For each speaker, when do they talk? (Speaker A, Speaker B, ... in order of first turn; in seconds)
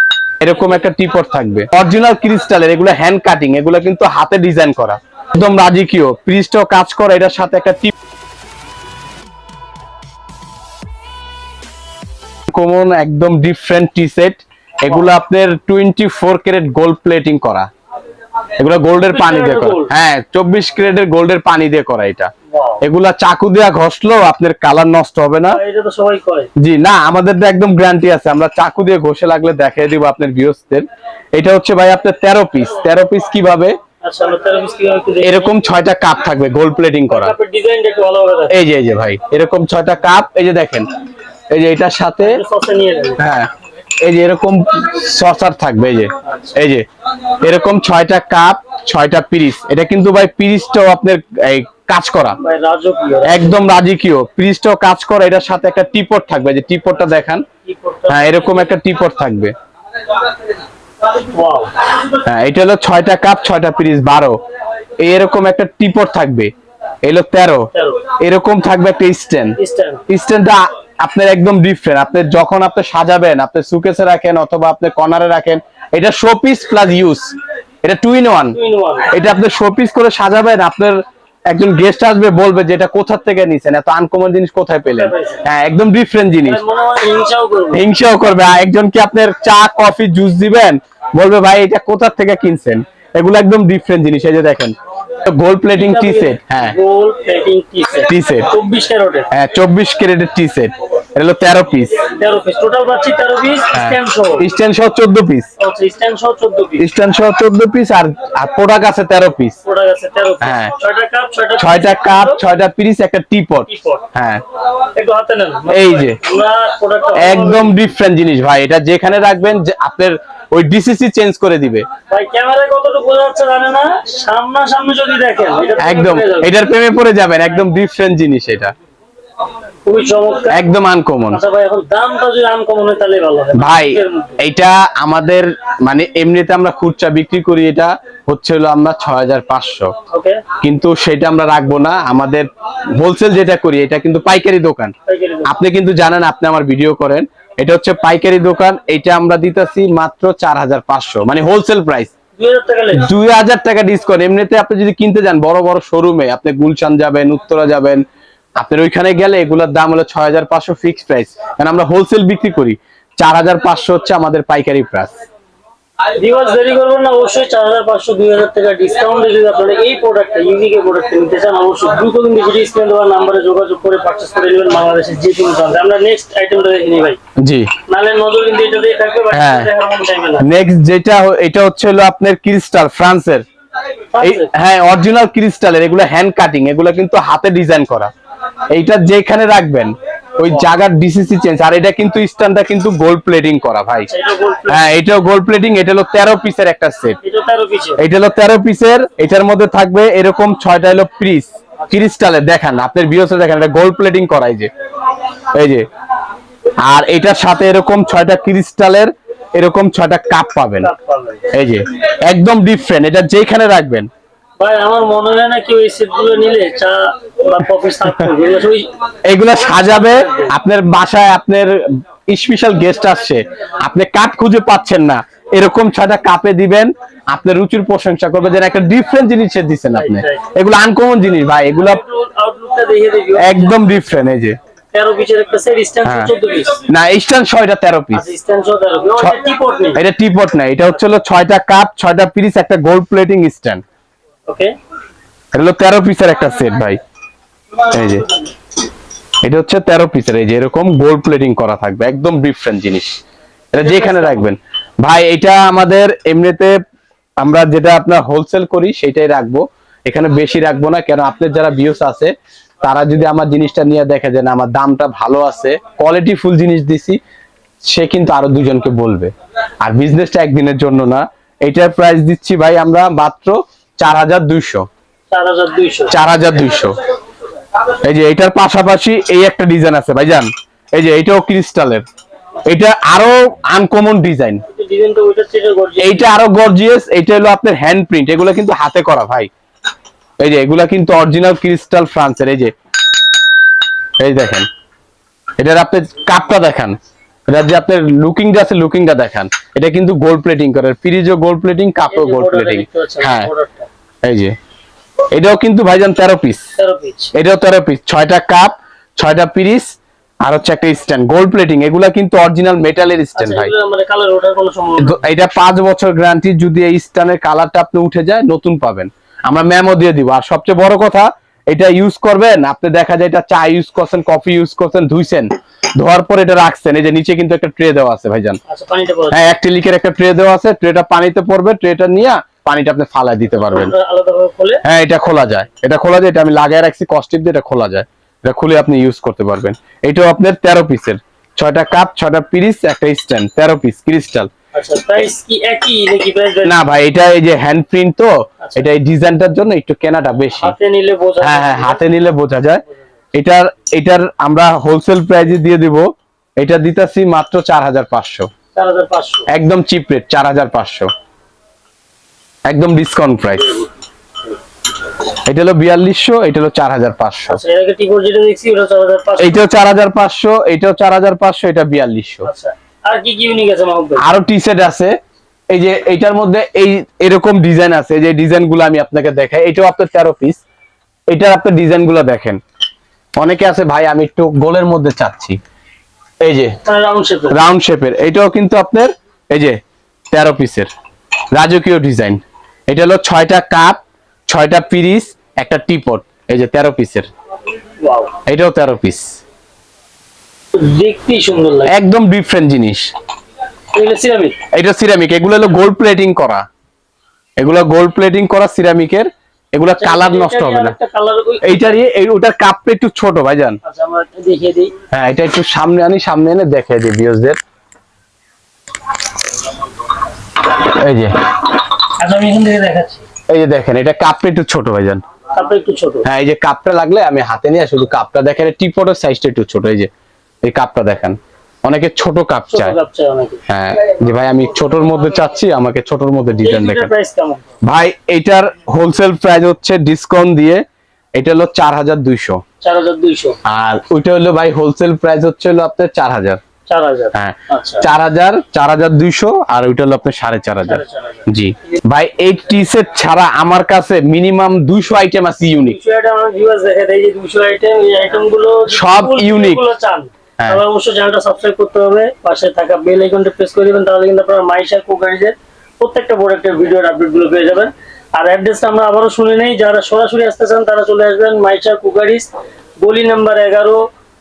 Speaker A: 0.4-7.9, 12.5-17.7, 18.6-22.3, 22.8-25.6, 26.6-33.8, 35.2-37.3, 38.5-40.9, 41.5-42.4, 43.2-43.5, 44.0-46.9, 47.4-52.4, 53.2-57.4, 58.1-59.5, 62.1-64.4, 65.0-66.5, 67.0-69.6, 70.1-78.5, 79.1-86.6, 87.7-96.8, 98.1-98.5, 99.3-102.0, 103.7-105.5, 106.8-109.6, 110.4-110.7, 111.6-114.4, 115.7-116.2, 117.2-121.8, 125.8-128.7, 130.5-131.4, 133.5-139.9, 140.6-144.9, 145.4-152.1, 152.9-158.0, 158.6-165.1, 177.4-177.7, 179.3-179.7, 180.4-183.4, 184.2-188.1, 188.7-194.1, 194.7-197.2, 198.0-204.7, 205.5-205.8, 206.8-210.9, 211.5-214.1, 219.3-232.0, 233.3-234.6, 236.0-236.3, 236.9-238.3, 239.9-243.8, 245.5-247.0, 247.8-248.3, 249.4-253.2, 253.7-256.7, 257.4-267.2, 267.9-274.9, 276.1-277.0, 277.9-282.0, 282.6-284.6, 286.0-289.5, 290.4-292.7, 294.2-294.7, 295.6-303.5, 304.2-304.6, 305.3-306.6, 307.3-309.9, 310.4-313.7, 315.0-328.6, 329.3-333.9, 334.8-344.5, 346.6-350.7, 351.4-352.8, 353.3-358.5, 359.5-361.1, 362.7-363.8, 365.4-367.6, 369.4-372.5, 374.2-375.1, 375.7-380.6, 381.3-382.6, 383.4-385.6, 386.4-386.8, 387.5-389.8, 390.3-390.9, 391.5-397.3, 398.4-399.2, 401.9-403.1, 404.7-406.6, 407.6-410.9, 411.6-413.8, 415.1-417.6, 420.7-421.5, 423.5-425.2, 426.2-430.1, 430.6-432.9, 433.7-437.1, 437.8-440.8, 441.4-442.6, 443.6-446.6, 447.3-456.0, 458.9-459.8
Speaker B: 19.1-19.9, 22.5-22.8, 25.5-26.5, 34.0-35.5, 37.1-38.5, 42.2-43.2, 52.4-53.6, 57.6-58.5, 61.2-61.8, 67.7-68.0, 69.6-70.0, 78.5-79.1, 84.9-85.4, 86.4-87.8, 95.7-99.3, 102.0-104.5, 105.6-106.8, 109.6-112.4, 113.7-114.0, 114.8-117.8, 122.1-126.6, 129.8-130.6, 131.3-134.4, 140.1-140.4, 145.1-145.6, 152.4-153.1, 166.2-177.2, 177.8-180.5, 184.1-184.5, 194.1-194.9, 197.2-198.0, 210.8-211.5, 214.6-218.9, 219.5-220.5, 229.9-230.4, 231.8-233.9, 234.9-236.8, 238.1-240.0, 244.5-244.7, 253.8-254.5, 275.3-276.2, 284.7-286.3, 302.1-303.9, 306.8-307.3, 313.3-315.3, 328.7-329.5, 333.7-334.8, 344.7-346.8, 348.6-348.9, 350.6-352.1, 358.7-359.4, 367.5-369.6, 372.4-374.2, 386.8-387.6, 398.0-398.3, 400.7-401.9, 403.9-404.6, 410.0-411.9, 413.8-414.9, 422.1-423.2, 425.5-426.2, 432.7-433.6, 436.6-437.6, 442.8-443.6, 446.9-448.1, 450.8-451.5, 455.9-472.5, 473.0-474.1